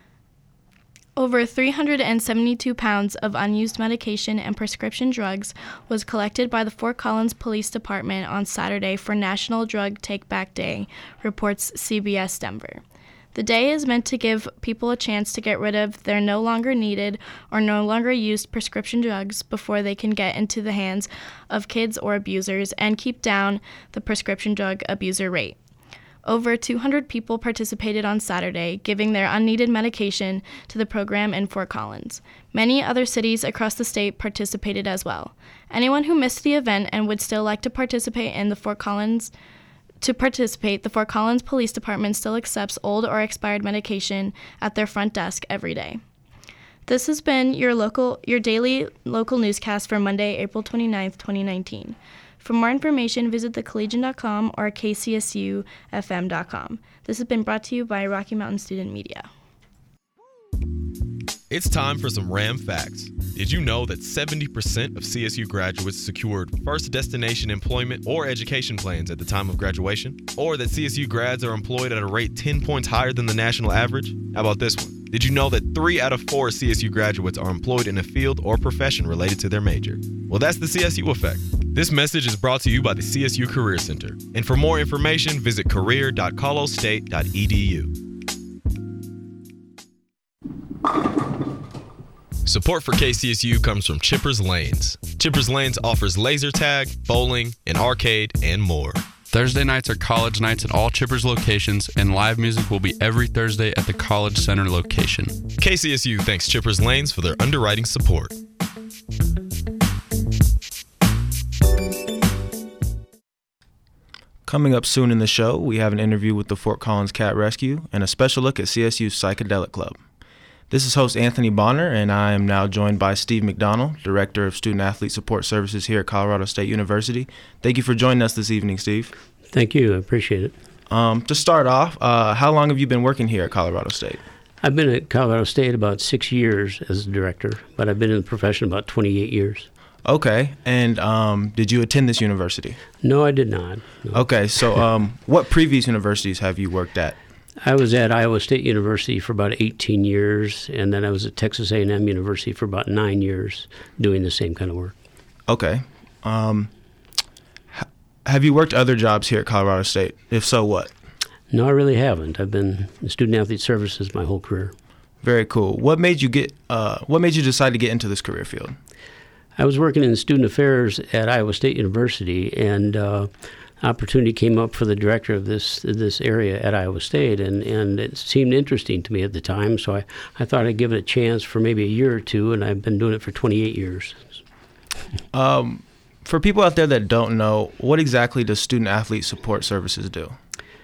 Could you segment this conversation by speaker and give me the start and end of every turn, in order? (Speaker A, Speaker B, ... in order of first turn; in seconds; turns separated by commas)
Speaker A: 1.2-12.8, Speaker A: 13.3-25.6, Speaker A: 26.2-39.3, Speaker A: 40.0-46.0, Speaker A: 46.9-59.3, Speaker B: 61.5-87.9, Speaker B: 92.4-99.1, Speaker C: 99.3-105.4, Speaker B: 105.6-108.4, Speaker D: 114.5-120.0, Speaker D: 120.7-129.1, Speaker E: 129.5-130.5, Speaker D: 130.9-134.2, Speaker E: 134.6-139.7, Speaker D: 140.0-142.8, Speaker E: 143.0-144.2, Speaker D: 144.1-147.2, Speaker E: 147.6-154.9, Speaker D: 155.5-156.7, Speaker D: 157.7-160.9, Speaker E: 161.5-164.7, Speaker D: 165.2-168.8, Speaker E: 169.6-184.4, Speaker D: 185.3-190.3